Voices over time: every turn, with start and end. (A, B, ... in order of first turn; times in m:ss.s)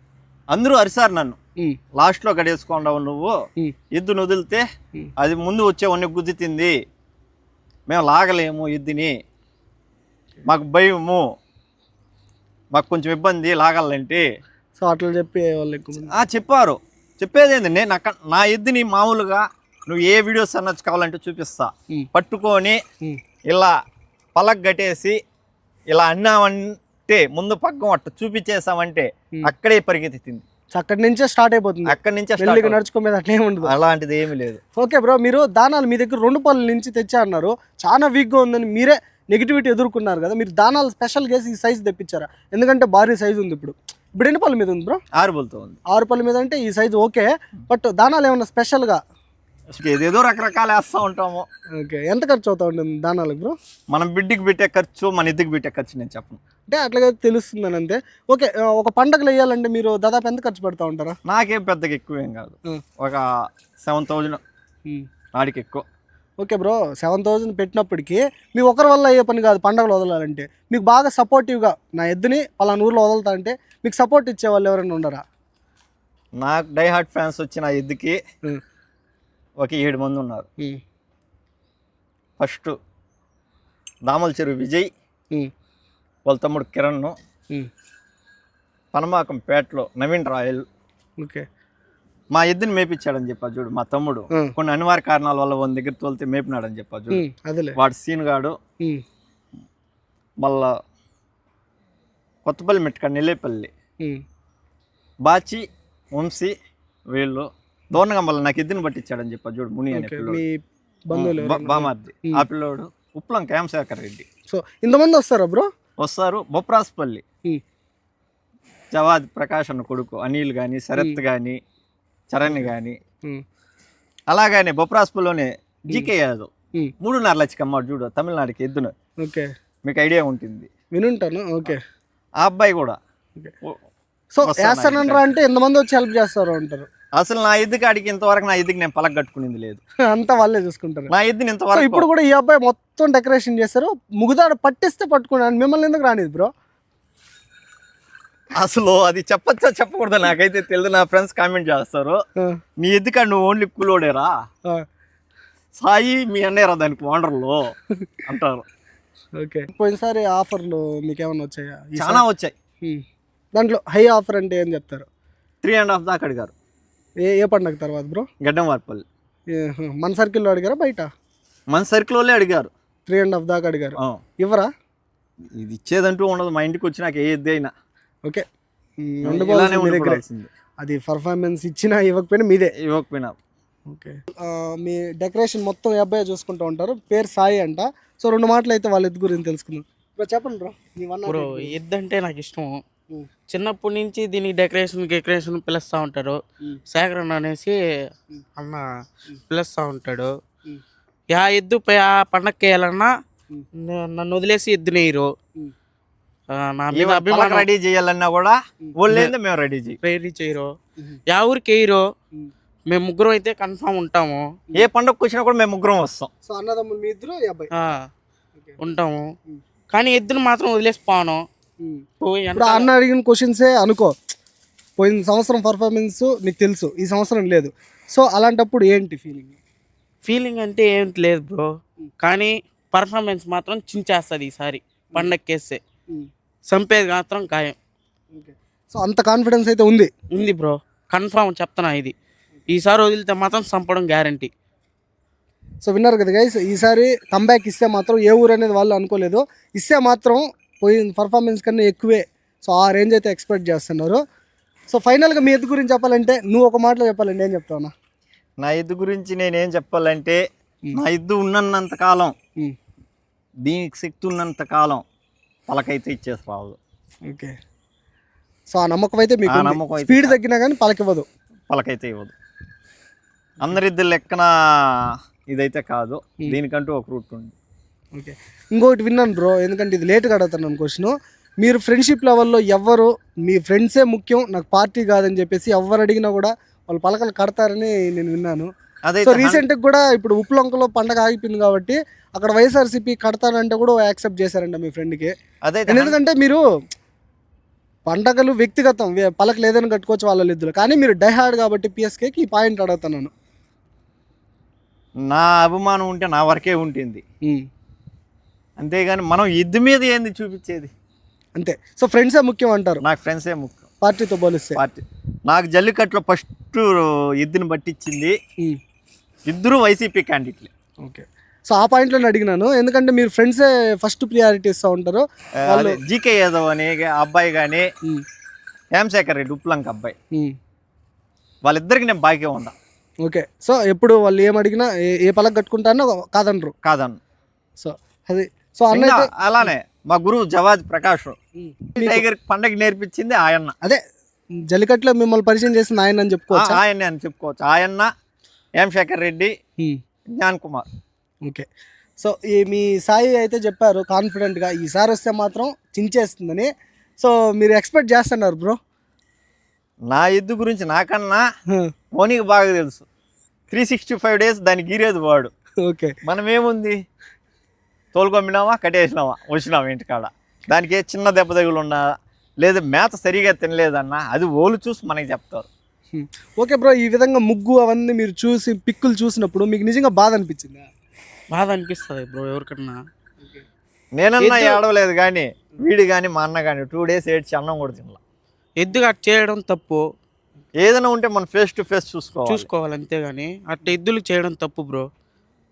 0:00.5-0:01.4 A
0:02.0-0:03.3 A
0:03.9-0:04.6 A
0:05.2-0:06.7 A
0:07.9-0:09.1 A
0:10.4-0:11.2 A
0:12.7-0:14.2 A
0:14.8-0:16.1 B
0:16.1-0:22.8 A
0:24.4-0:25.2 A
0:25.9-0:30.4 A
0:30.7-0:33.7 B
0:31.8-0:32.8 A
0:33.6-0:34.6 A
0:34.8-0:45.0 B
0:45.2-0:45.8 A
0:45.9-0:49.0 B
0:49.7-0:51.4 A
0:51.8-0:53.5 B
0:53.9-0:56.4 A
0:56.7-1:01.2 B
1:01.3-1:03.2 A
1:03.8-1:04.4 A
1:05.3-1:05.8 A
1:06.4-1:15.2 B
1:16.4-1:18.2 A
1:19.6-1:20.4 A
1:22.4-1:22.8 A
1:24.1-1:24.9 A
1:26.2-1:27.1 A
1:28.9-1:30.6 A
1:32.4-1:37.2 A
1:37.1-1:37.8 B
1:37.8-1:38.5 A
1:40.4-1:40.7 A
1:42.4-1:43.7 A
1:45.2-1:45.6 A
1:46.2-1:46.5 A
1:47.1-1:50.4 A
1:49.9-1:52.4 B
1:51.1-1:54.2 A
1:54.5-1:55.7 B
1:56.0-1:57.2 A
1:58.9-2:01.6 A
2:01.0-2:01.2 B
2:02.3-2:03.0 A
2:04.3-2:06.5 A
2:07.0-2:08.9 A
2:09.2-2:09.5 B
2:09.8-2:10.7 A
2:11.0-2:11.8 B
2:12.4-2:13.0 A
2:14.4-2:16.9 B
2:14.4-2:15.2 A
2:17.2-2:19.8 A
2:20.0-2:21.1 B
2:21.1-2:22.1 A
2:21.7-2:26.5 B
2:28.6-2:32.2 A
2:32.8-2:34.3 A
2:35.8-2:38.6 A
2:39.4-2:42.2 B
2:42.0-2:42.5 A
2:43.5-2:45.0 B
2:45.6-2:46.5 A
2:47.2-2:48.2 B
2:48.4-2:49.0 A
2:49.5-2:51.1 B
2:51.7-2:52.7 A
2:53.1-2:54.7 B
2:55.6-2:57.7 A
2:59.0-3:00.2 B
2:59.2-3:00.5 A
3:00.8-3:02.7 B
3:02.8-3:03.3 A
3:03.9-3:11.7 B
3:11.3-3:12.8 C
3:13.5-3:16.4 C
3:16.9-3:17.8 C
3:18.6-3:20.3 C
3:21.3-3:23.1 C
3:23.8-3:25.3 C
3:26.5-3:27.6 C
3:26.9-3:30.0 A
3:30.0-3:30.7 C
3:31.3-3:32.0 C
3:32.9-3:34.4 C
3:34.7-3:36.3 A
3:36.4-3:37.7 B
3:38.8-3:39.2 C
3:39.9-3:41.4 C
3:42.2-3:42.9 C
3:42.6-3:44.1 B
3:45.0-3:49.6 B
3:50.2-3:51.7 C
3:52.2-3:55.8 C
3:56.7-3:57.8 C
3:58.3-4:00.1 B
4:00.3-4:02.1 C
4:02.7-4:04.5 C
4:05.8-4:14.2 B
4:14.9-4:17.9 B
4:18.6-4:20.4 A
4:20.9-4:22.3 A
4:23.6-4:25.0 A
4:25.7-4:26.8 A
4:27.3-4:27.5 B
4:28.7-4:31.2 B
4:29.5-4:30.4 A
4:31.7-4:32.3 A
4:33.6-4:34.5 A
4:35.5-4:37.5 A
4:38.1-4:48.7 B
4:49.1-4:49.6 A
4:49.2-4:55.3 B
4:55.6-4:56.2 A
4:55.9-4:56.6 B
4:58.1-5:03.3 B
5:05.2-5:07.2 A
5:08.8-5:10.9 A
5:11.6-5:13.0 B
5:13.0-5:13.8 A
5:14.0-5:14.8 B
5:14.8-5:18.3 A
5:19.5-5:20.7 A
5:21.0-5:26.0 B
5:25.7-5:27.9 A
5:29.0-5:30.1 A
5:31.6-5:32.7 A
5:33.2-5:36.7 B
5:36.8-5:37.2 A
5:37.8-5:39.7 B
5:38.9-5:41.4 A
5:41.6-5:42.2 B
5:41.9-5:43.7 A
5:44.7-5:46.8 B
5:46.5-5:48.1 A
5:48.8-5:49.5 A
5:50.3-5:50.9 A
5:52.2-5:58.8 B
6:00.1-6:01.4 A
6:02.2-6:03.0 A
6:03.7-6:05.5 A
6:05.8-6:06.1 B
6:06.2-6:07.0 A
6:08.1-6:12.1 A
6:12.6-6:15.7 A
6:16.1-6:20.8 B
6:21.5-6:23.0 C
6:24.2-6:28.2 A
6:24.4-6:24.8 C
6:28.8-6:30.0 C
6:30.8-6:32.7 A
6:32.5-6:35.0 C